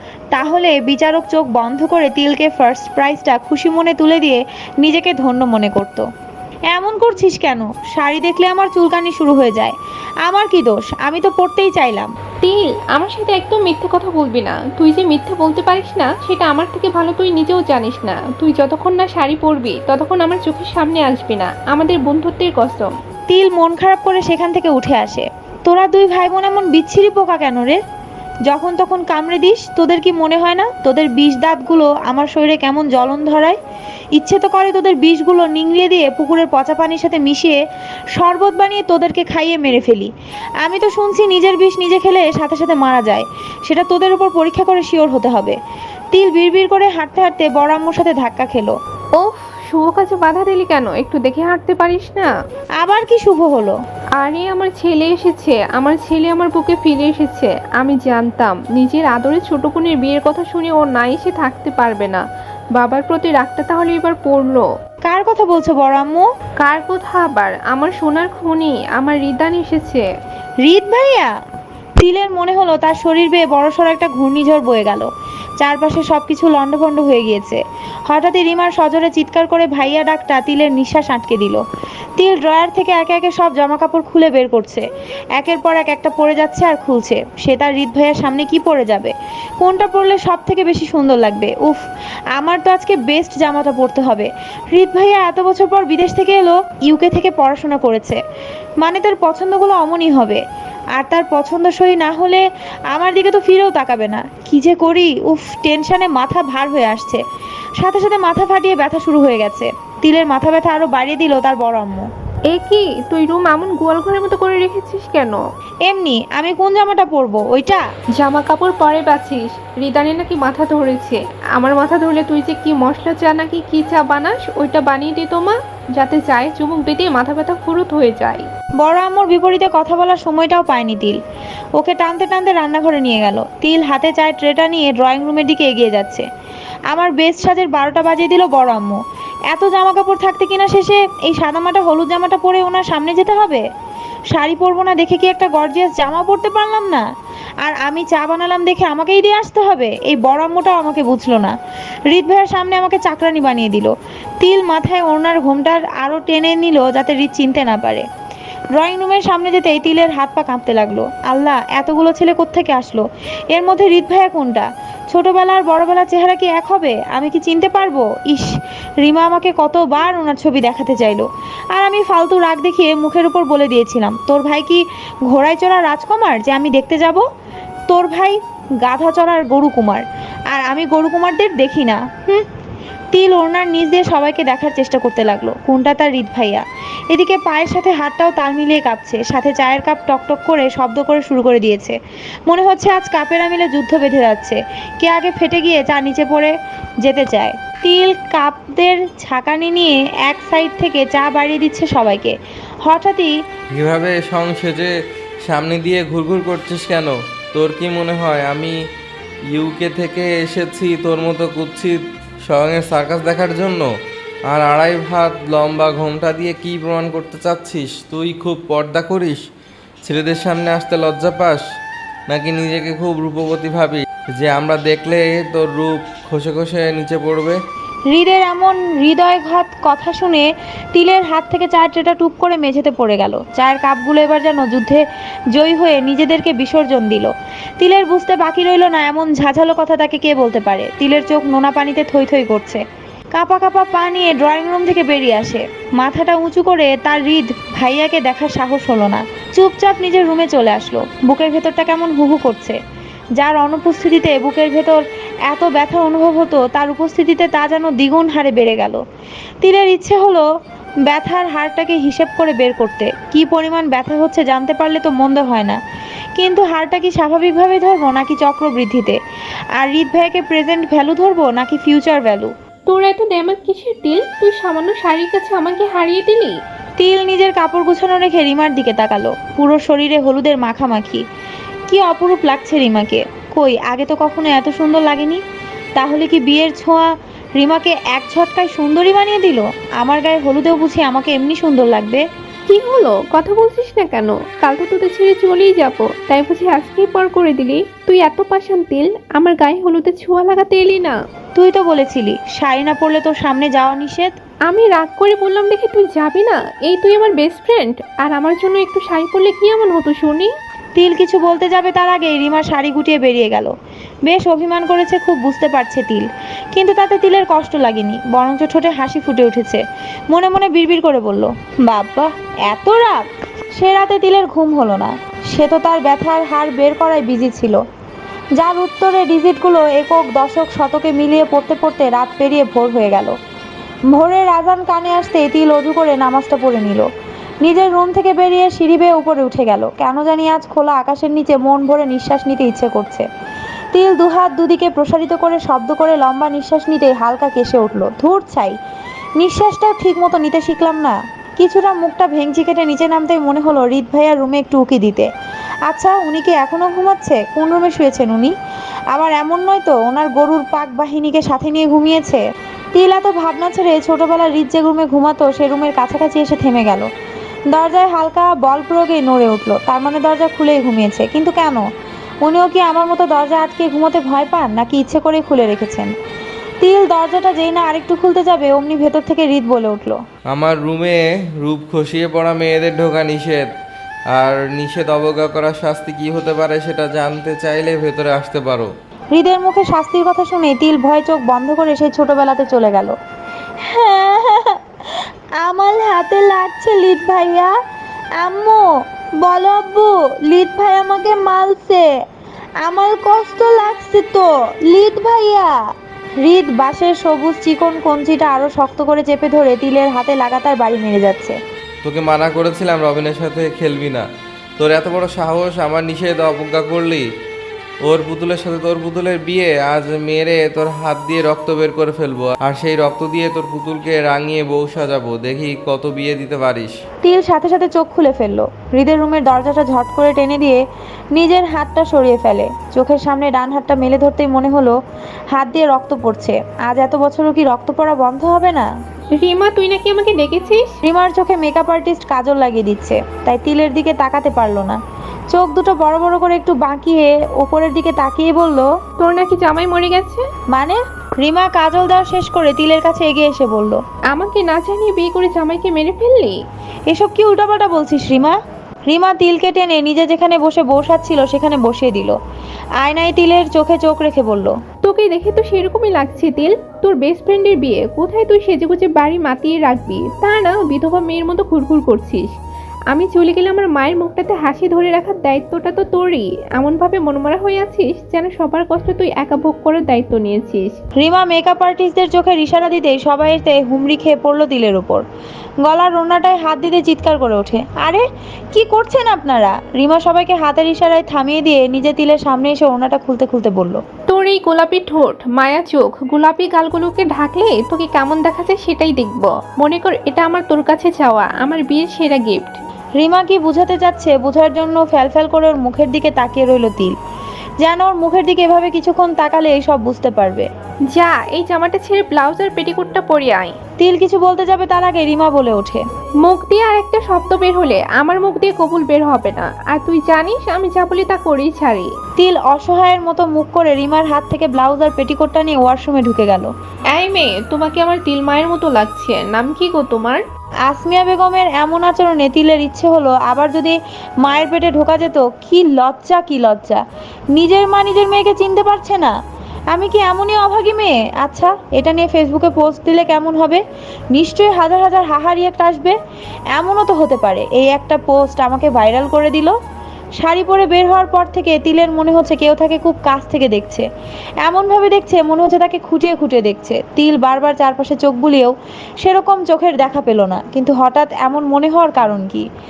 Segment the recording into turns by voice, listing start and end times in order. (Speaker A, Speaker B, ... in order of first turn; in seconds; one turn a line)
Speaker A: 0.3-6.1
Speaker A: 6.7-12.1
Speaker B: 12.4-23.0
Speaker A: 23.3-27.8
Speaker A: 28.5-33.6
Speaker A: 34.1-37.6
Speaker A: 38.2-40.1
Speaker A: 40.6-45.6
Speaker A: 46.1-48.8
Speaker B: 49.1-52.3
Speaker A: 52.8-53.8
Speaker B: 54.2-62.2
Speaker B: 62.7-64.7
Speaker A: 65.1-66.3
Speaker B: 66.6-70.1
Speaker A: 70.7-71.3
Speaker A: 72.0-75.1
Speaker A: 75.6-81.6
Speaker A: 82.2-84.8
Speaker A: 85.4-91.8
Speaker A: 92.4-98.2
Speaker A: 98.8-100.4
Speaker A: 101.0-107.2
Speaker A: 107.8-112.1
Speaker B: 112.5-115.4
Speaker A: 115.9-117.8
Speaker B: 118.2-128.5
Speaker A: 128.8-131.2
Speaker A: 131.8-136.2
Speaker A: 136.9-139.0
Speaker A: 139.5-143.6
Speaker A: 144.3-147.1
Speaker A: 147.6-151.5
Speaker A: 152.1-158.1
Speaker A: 158.8-177.2
Speaker A: 177.9-182.5
Speaker A: 183.1-203.3
Speaker C: 203.7-208.8
Speaker C: 209.5-213.9
Speaker C: 214.5-219.4
Speaker C: 220.0-221.6
Speaker C: 222.3-227.6
Speaker A: 228.1-242.8
Speaker A: 243.3-252.8
Speaker A: 253.4-259.0
Speaker A: 259.6-260.5
Speaker A: 261.1-265.8
Speaker A: 266.4-269.2
Speaker A: 269.8-272.5
Speaker B: 272.9-276.6
Speaker A: 277.0-281.2
Speaker A: 281.9-285.4
Speaker A: 286.0-292.2
Speaker B: 292.7-301.2
Speaker A: 301.6-304.4
Speaker B: 304.7-310.5
Speaker A: 311.0-313.7
Speaker A: 314.3-323.2
Speaker A: 323.8-327.8
Speaker A: 328.6-333.4
Speaker A: 334.1-337.1
Speaker A: 337.6-343.3
Speaker A: 343.9-348.8
Speaker A: 349.4-355.3
Speaker A: 355.9-358.5
Speaker A: 359.1-362.4
Speaker A: 362.9-367.1
Speaker A: 367.7-371.9
Speaker A: 372.4-376.1
Speaker A: 376.8-380.2
Speaker C: 380.5-383.7
Speaker C: 384.3-388.9
Speaker A: 389.3-393.1
Speaker A: 393.8-394.8
Speaker A: 395.6-397.7
Speaker A: 398.4-398.9
Speaker A: 399.4-402.1
Speaker A: 402.8-405.7
Speaker A: 406.4-411.6
Speaker C: 412.0-414.3
Speaker C: 414.8-417.3
Speaker C: 418.0-426.9
Speaker A: 427.2-430.8
Speaker A: 431.3-435.0
Speaker A: 435.5-438.9
Speaker B: 439.4-440.9
Speaker A: 441.0-445.0
Speaker A: 445.5-448.9
Speaker B: 449.2-450.5
Speaker A: 450.7-454.0
Speaker B: 454.3-456.6
Speaker A: 457.1-458.6
Speaker A: 459.1-462.4
Speaker A: 463.0-464.8
Speaker B: 465.0-472.5
Speaker B: 473.1-481.0
Speaker A: 481.2-485.2
Speaker A: 485.8-494.0
Speaker B: 494.3-502.8
Speaker A: 503.2-507.1
Speaker A: 507.8-510.7
Speaker B: 511.1-513.8
Speaker A: 514.0-516.0
Speaker B: 516.4-522.1
Speaker A: 522.4-526.7
Speaker B: 527.1-530.4
Speaker A: 530.9-537.0
Speaker A: 537.6-539.3
Speaker A: 539.9-546.2
Speaker A: 546.7-549.8
Speaker A: 550.4-554.1
Speaker A: 554.6-562.6